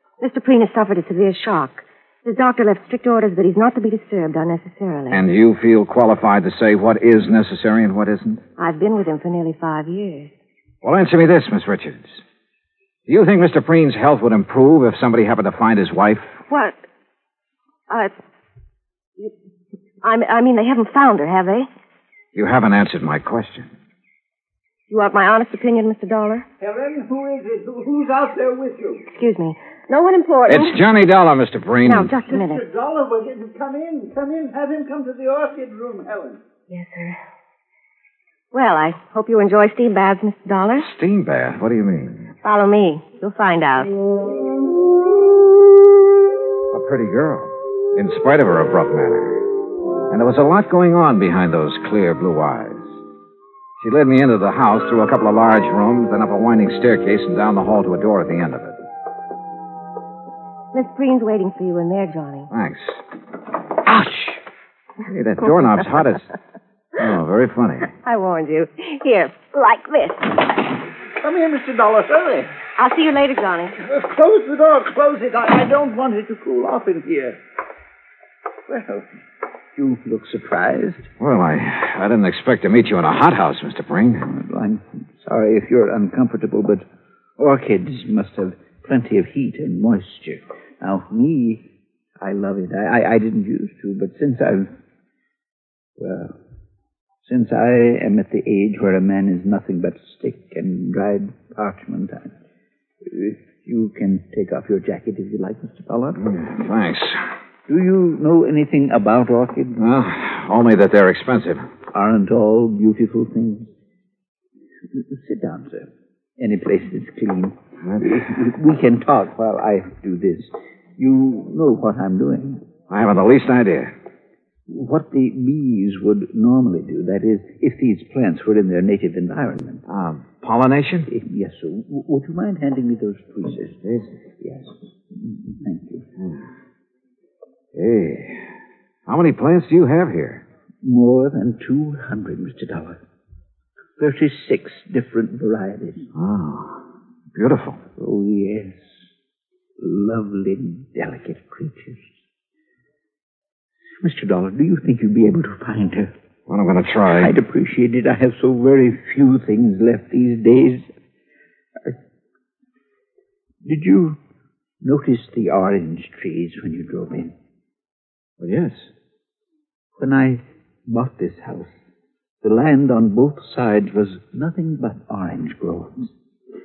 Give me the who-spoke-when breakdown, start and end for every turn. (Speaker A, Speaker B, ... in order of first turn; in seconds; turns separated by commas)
Speaker A: 0.2-5.2, Speaker B: 5.1-8.4, Speaker A: 8.6-10.3, Speaker B: 10.8-12.2, Speaker B: 13.1-16.4, Speaker A: 16.5-16.8, Speaker A: 20.0-21.7, Speaker B: 22.3-23.7, Speaker A: 24.9-26.4, Speaker C: 26.6-29.0, Speaker A: 29.1-30.8, Speaker B: 30.5-32.1, Speaker A: 31.8-32.6, Speaker C: 32.3-36.4, Speaker A: 36.7-37.2, Speaker A: 38.5-40.9, Speaker B: 40.8-42.3, Speaker A: 42.4-43.9, Speaker B: 46.7-49.4, Speaker B: 50.1-53.0, Speaker B: 53.8-58.8, Speaker A: 60.7-62.5, Speaker B: 62.5-63.0, Speaker B: 63.9-64.3, Speaker B: 65.0-66.3, Speaker B: 66.9-67.9, Speaker A: 68.0-70.4, Speaker C: 71.2-72.5, Speaker A: 72.8-73.8, Speaker C: 73.8-77.4, Speaker C: 78.7-79.0, Speaker C: 79.7-81.1, Speaker B: 81.2-84.3, Speaker C: 84.3-86.8, Speaker C: 87.4-91.7, Speaker C: 92.2-94.7, Speaker C: 96.0-96.4, Speaker C: 97.2-102.3, Speaker C: 103.0-106.2, Speaker B: 106.2-107.2, Speaker C: 107.7-109.8, Speaker B: 109.8-111.7, Speaker C: 111.9-113.7, Speaker C: 114.9-122.6, Speaker B: 122.9-123.9, Speaker C: 124.7-129.8, Speaker B: 129.9-131.1, Speaker C: 131.1-133.8, Speaker B: 133.8-134.1, Speaker C: 134.4-136.0, Speaker B: 137.7-138.4, Speaker B: 139.1-140.4, Speaker C: 140.8-143.0, Speaker C: 144.0-146.1, Speaker B: 146.1-146.8, Speaker B: 147.3-147.8, Speaker C: 148.0-148.9, Speaker C: 149.8-152.1, Speaker C: 154.0-156.1, Speaker B: 156.5-157.3, Speaker C: 157.1-160.8, Speaker C: 163.6-164.2, Speaker C: 164.8-167.3, Speaker B: 168.4-168.9, Speaker C: 170.0-171.7, Speaker C: 172.4-176.1